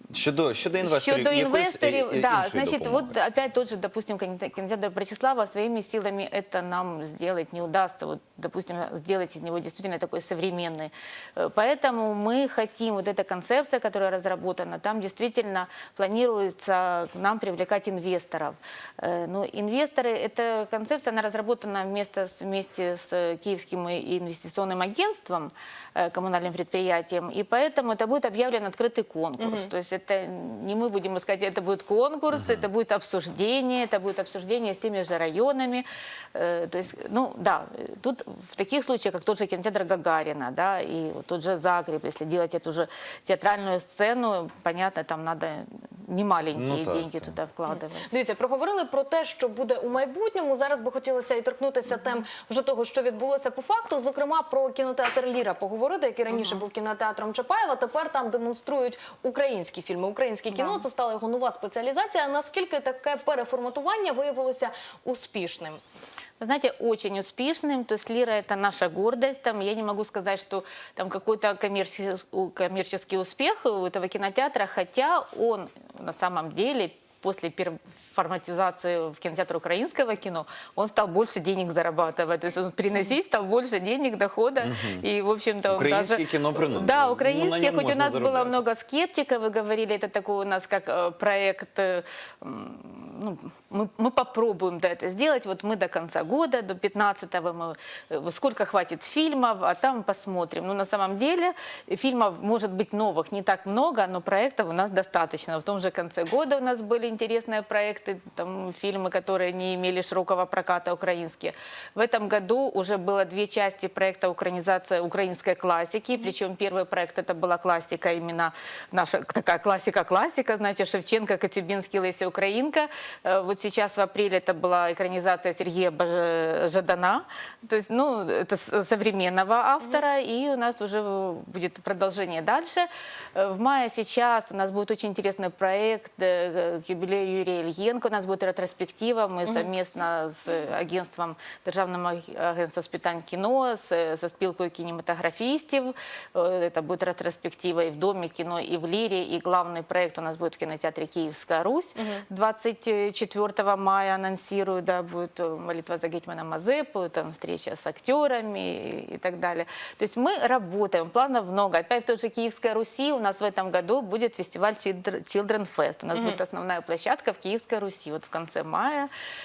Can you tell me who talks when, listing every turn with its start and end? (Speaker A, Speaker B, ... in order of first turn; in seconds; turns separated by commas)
Speaker A: 0.1-3.1, Speaker B: 0.8-48.1, Speaker C: 29.4-29.7, Speaker A: 46.5-47.3, Speaker C: 47.7-65.8, Speaker B: 56.3-56.6, Speaker B: 60.5-60.8, Speaker B: 66.4-169.1, Speaker A: 84.6-85.0, Speaker A: 85.7-88.6, Speaker C: 152.0-152.2, Speaker C: 166.1-166.4